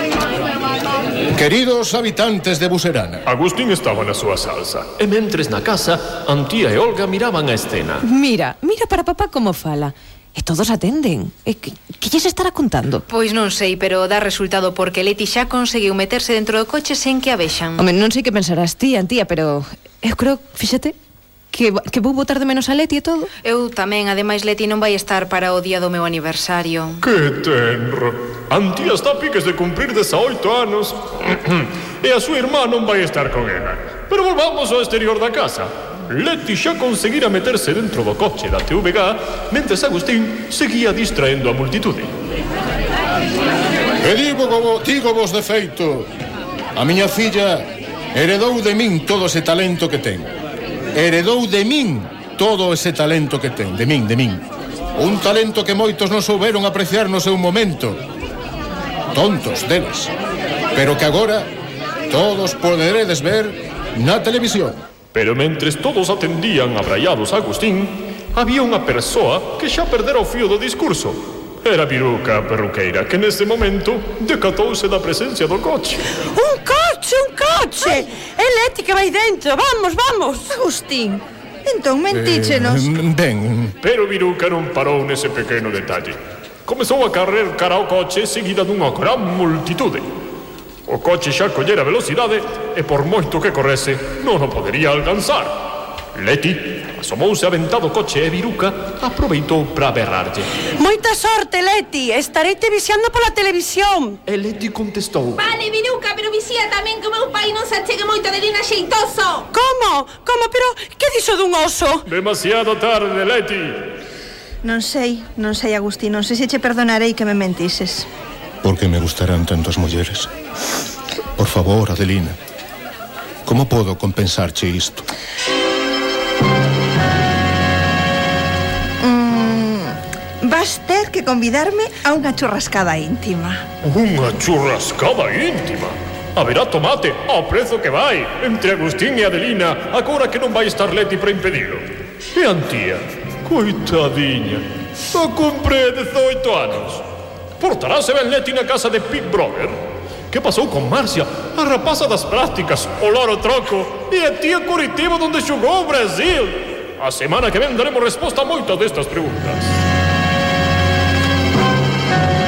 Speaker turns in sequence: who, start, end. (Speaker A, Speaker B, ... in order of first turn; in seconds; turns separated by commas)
Speaker A: 1.3-3.2, Speaker B: 3.2-8.1, Speaker C: 8.0-13.0, Speaker D: 13.1-17.8, Speaker C: 17.8-20.9, Speaker C: 21.5-23.3, Speaker D: 23.4-27.0, Speaker B: 27.0-42.1, Speaker A: 44.0-46.1, Speaker A: 46.7-50.3, Speaker A: 50.9-58.0, Speaker A: 59.1-60.1, Speaker A: 60.7-61.5, Speaker A: 62.1-64.8, Speaker B: 65.1-76.1, Speaker E: 76.3-80.4, Speaker F: 80.5-83.0, Speaker A: 82.1-83.7, Speaker B: 83.8-90.0, Speaker B: 90.9-95.6, Speaker B: 96.1-100.5, Speaker E: 100.8-104.2, Speaker B: 104.3-105.4, Speaker G: 105.4-109.5, Speaker E: 109.5-112.0, Speaker B: 112.0-113.8, Speaker F: 114.6-118.1, Speaker A: 118.6-120.3, Speaker A: 121.4-122.4, Speaker A: 123.5-125.1, Speaker F: 129.0-133.6, Speaker B: 133.8-147.0, Speaker B: 147.6-149.8, Speaker B: 150.3-159.7